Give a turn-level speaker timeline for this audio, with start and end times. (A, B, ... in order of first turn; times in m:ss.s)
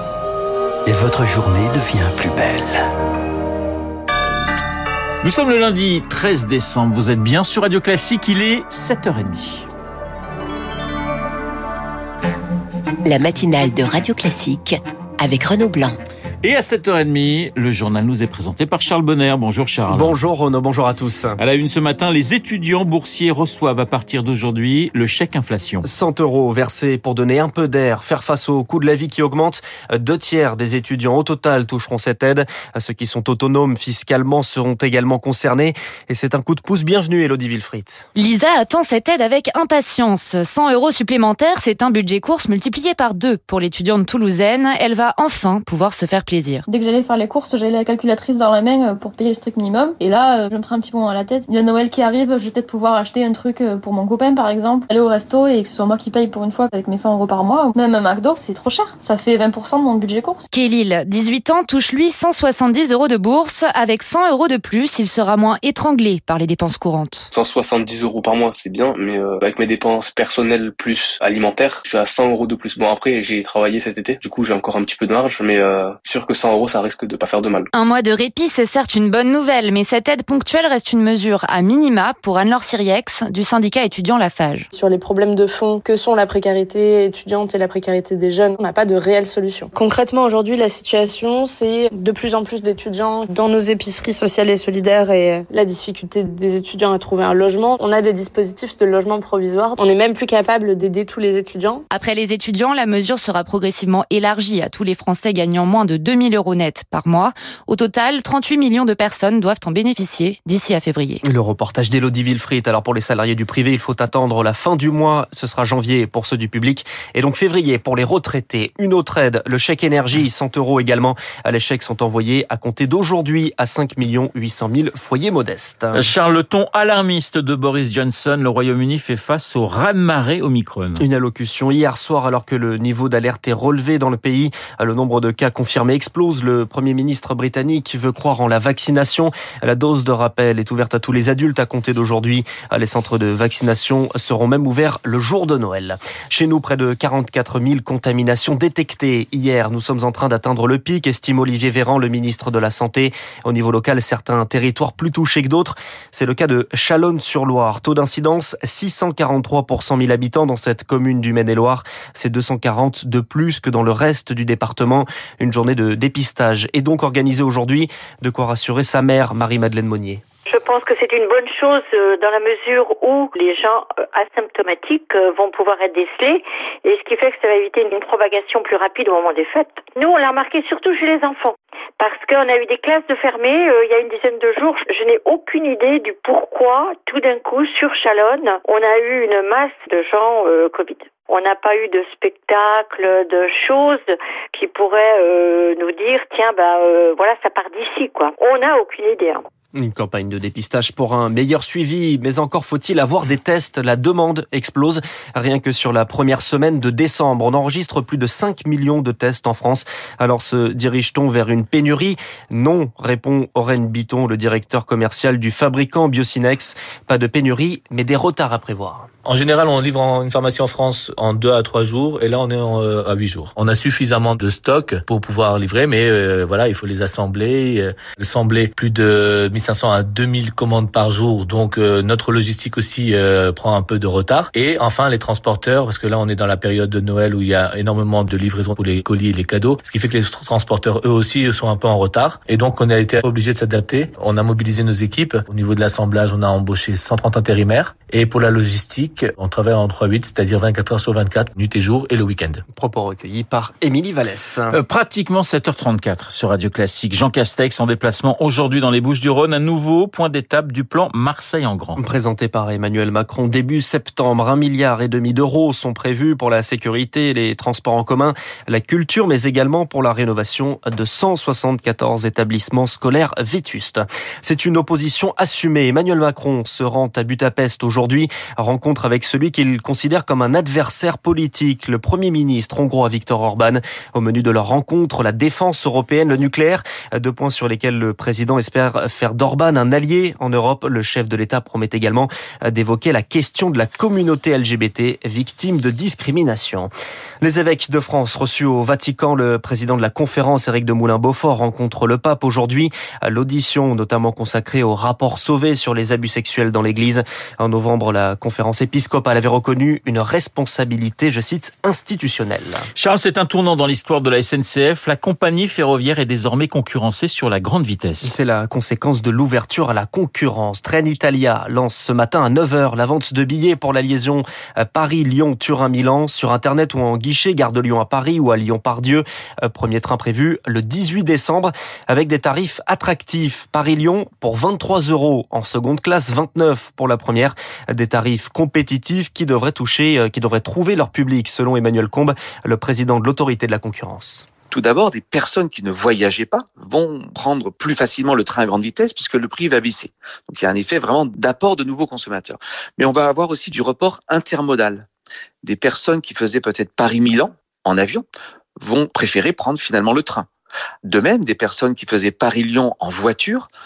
0:00.8-0:02.8 A
0:05.2-0:09.7 B
0:13.0-0:16.0 C
0:16.4-0:20.2 B
0:19.9-0:21.4 D
0:21.4-0:25.9 B
0:25.8-0:38.1 D
0:38.2-0:46.6 E
0:46.7-1:00.5 F
1:00.5-1:07.3 E
1:07.3-1:17.7 G
1:17.7-1:24.7 E
1:24.7-1:41.8 H
1:41.9-1:51.2 E
1:51.2-2:06.1 D
2:06.0-2:11.0 B
2:11.0-2:50.2 D
2:50.5-3:19.4 I
3:19.8-3:39.1 D
3:39.2-4:12.6 J
4:12.7-4:14.8 D
4:14.7-4:22.0 B
4:22.0-4:56.9 D
4:57.4-5:12.8 D
5:13.0-5:18.4 B
5:18.2-5:44.5 D
5:44.7-5:55.1 K
5:55.6-5:58.2 K
5:58.8-6:00.5 K
6:01.0-6:03.7 K